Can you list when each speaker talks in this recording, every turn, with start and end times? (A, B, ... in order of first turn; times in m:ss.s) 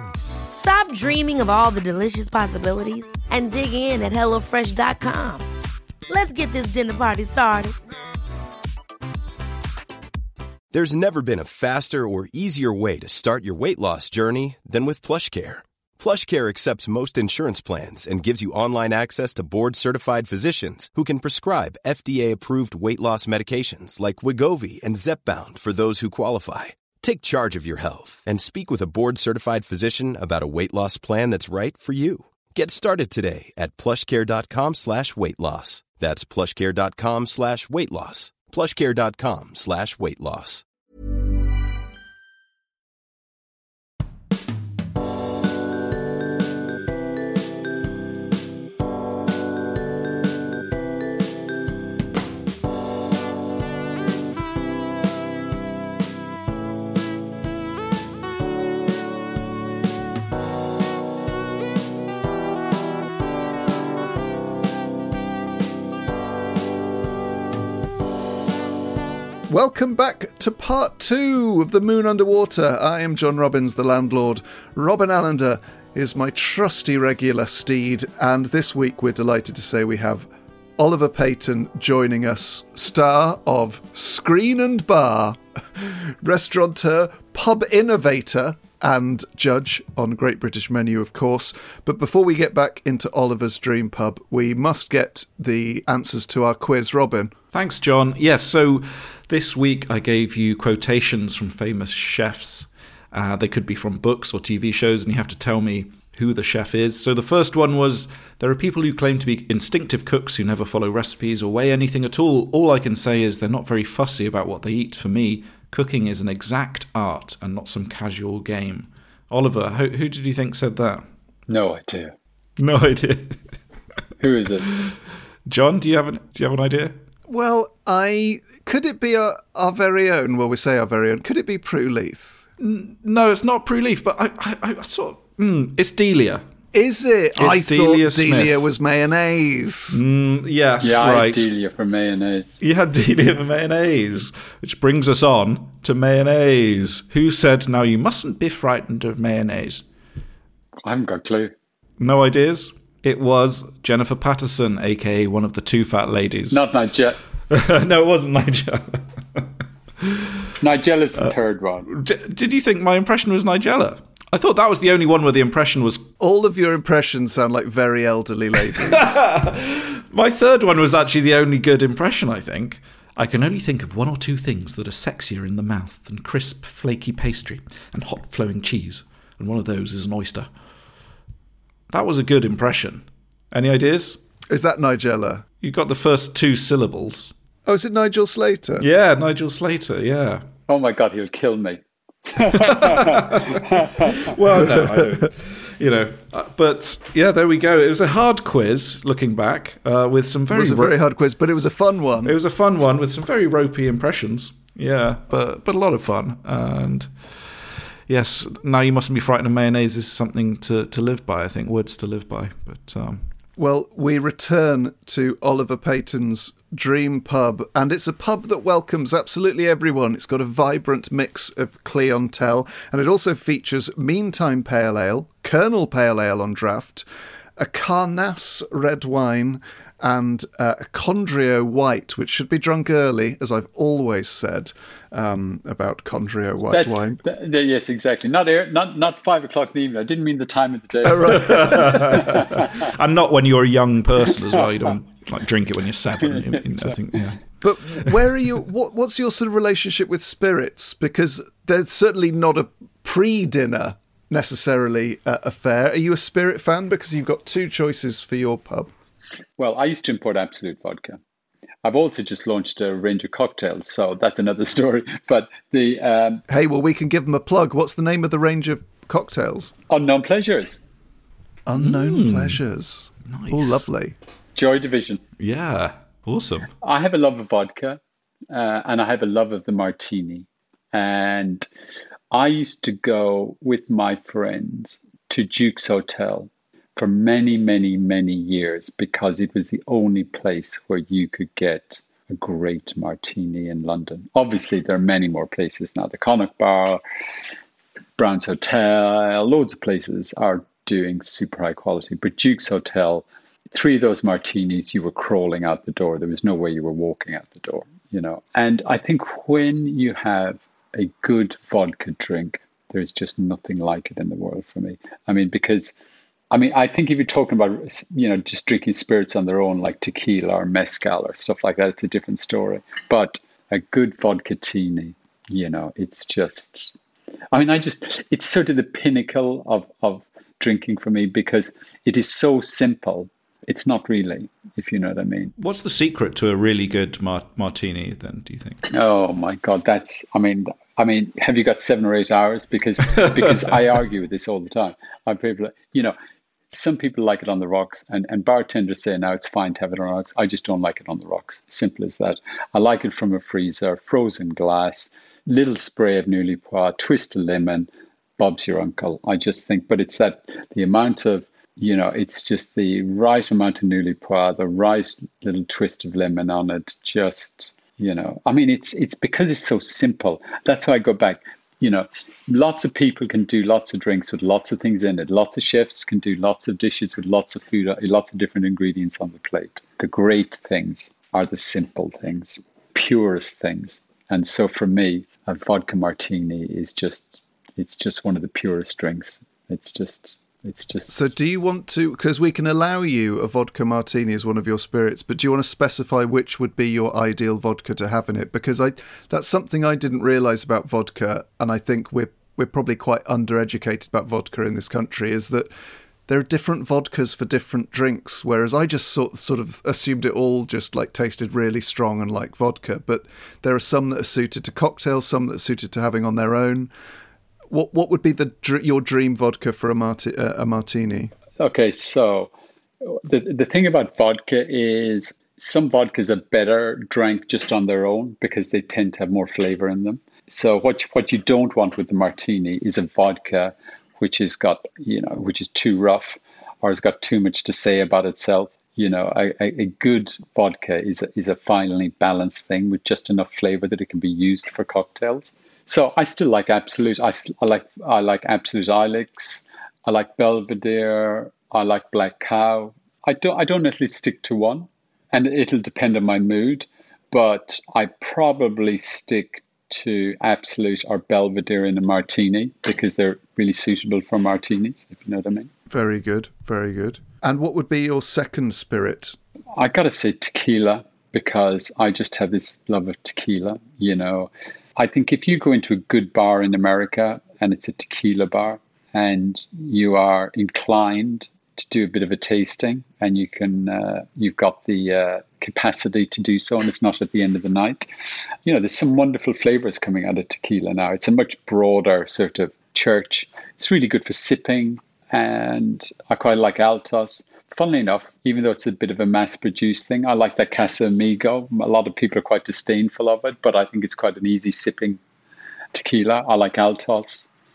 0:00.5-0:05.5 A
0:06.1-0:07.7 A
0:10.7-0:40.6 B
1:09.5-1:37.3 C
1:37.5-2:01.0 D
2:01.5-2:02.1 E
2:02.6-2:03.4 D
2:04.2-2:04.7 E
2:05.5-2:07.0 D
2:07.3-2:12.4 C
2:12.6-2:16.4 D
2:16.7-2:20.0 C
2:17.4-2:18.6 D
2:19.9-2:21.5 D
2:20.8-2:22.6 E
2:22.6-2:29.8 D
2:30.8-2:31.5 E
2:32.0-2:36.6 D
2:36.5-2:37.2 E
2:37.5-2:39.5 D
2:40.0-2:40.3 D
2:40.6-2:41.9 E
2:41.9-2:46.0 D
2:46.2-2:49.2 C
2:48.7-3:00.5 D
3:01.9-3:04.2 D
3:04.5-3:05.4 C
3:05.6-3:07.3 D
3:07.6-3:08.9 C
3:08.8-3:10.4 D
3:10.7-3:14.3 E
3:12.6-3:20.9 D
3:20.5-3:22.3 C
3:22.2-3:27.1 D
3:28.1-3:33.2 D
3:33.6-3:47.0 C
3:47.6-3:57.2 C
3:56.7-4:02.7 E
4:01.0-4:02.3 C
4:01.3-4:07.4 D
4:06.2-4:07.0 E
4:07.6-4:18.9 C
4:07.9-4:08.4 D
4:19.6-4:21.2 E
4:21.8-4:26.4 E
4:26.5-4:29.7 C
4:29.9-4:30.8 E
4:31.6-4:34.2 C
4:31.8-4:32.6 D
4:33.3-4:33.8 D
4:34.5-4:35.2 E
4:35.4-4:36.7 D
4:36.8-4:38.0 E
4:38.5-4:41.7 E
4:42.3-4:57.0 E
4:58.2-5:15.9 E
5:16.5-5:26.9 E
5:27.5-5:35.5 E
5:35.6-5:38.8 D
5:38.9-5:46.1 E
5:46.7-6:31.1 E
6:31.1-6:45.7 C
6:46.3-6:56.9 C
6:57.7-7:01.3 C
7:01.6-7:02.5 E
7:03.0-7:45.7 E
7:45.9-7:49.4 C
7:49.7-8:08.1 E
8:08.6-8:25.2 E
8:25.9-8:27.5 E